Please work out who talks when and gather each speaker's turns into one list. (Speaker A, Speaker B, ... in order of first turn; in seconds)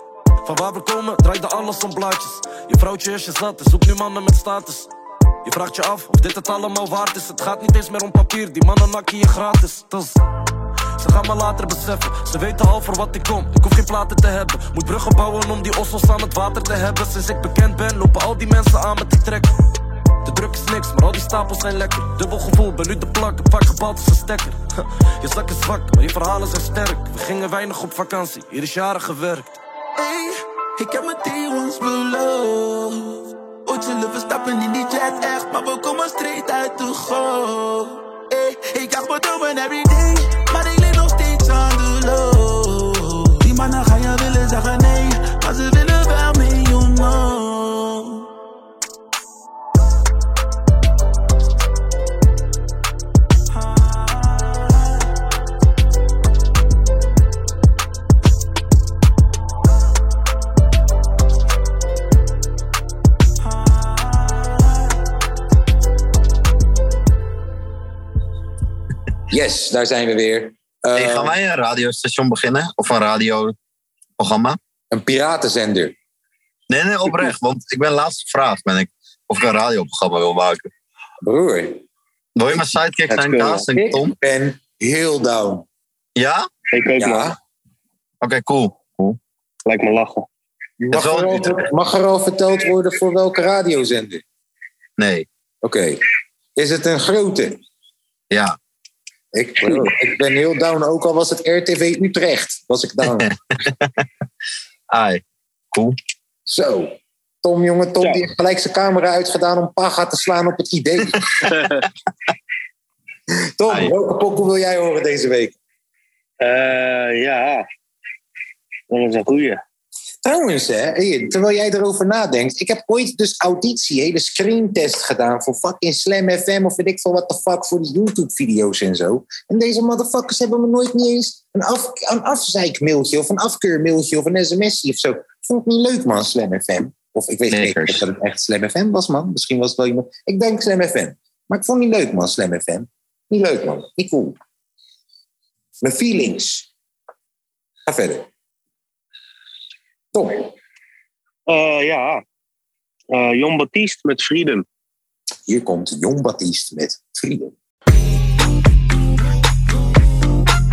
Speaker A: 0.4-4.9, 5.4-10.2, 11.0-19.5, 20.2-29.5
Speaker B: 29.9-48.2
Speaker C: 69.3-71.3, 74.9-75.9, 81.2-81.8, 83.8-85.6, 87.0-87.4, 90.8-94.2, 95.6-96.0, 96.5-97.6, 99.3-103.3, 106.5-111.2, 113.6-115.6, 120.2-144.4, 145.8-146.7, 147.8-148.3, 150.1-150.5, 155.4-157.5
Speaker D: 70.9-73.5, 74.2-74.6, 76.7-80.7, 82.3-84.1, 86.2-86.5, 88.2-89.2, 90.9-91.5, 95.0-95.2, 98.3-98.5, 103.2-103.9, 104.9-105.2, 137.5-138.0
Speaker E: 83.1-83.6, 86.7-87.3, 89.7-90.3, 111.4-111.8, 116.4-117.6, 118.9-119.6, 151.5-152.2, 153.1-154.7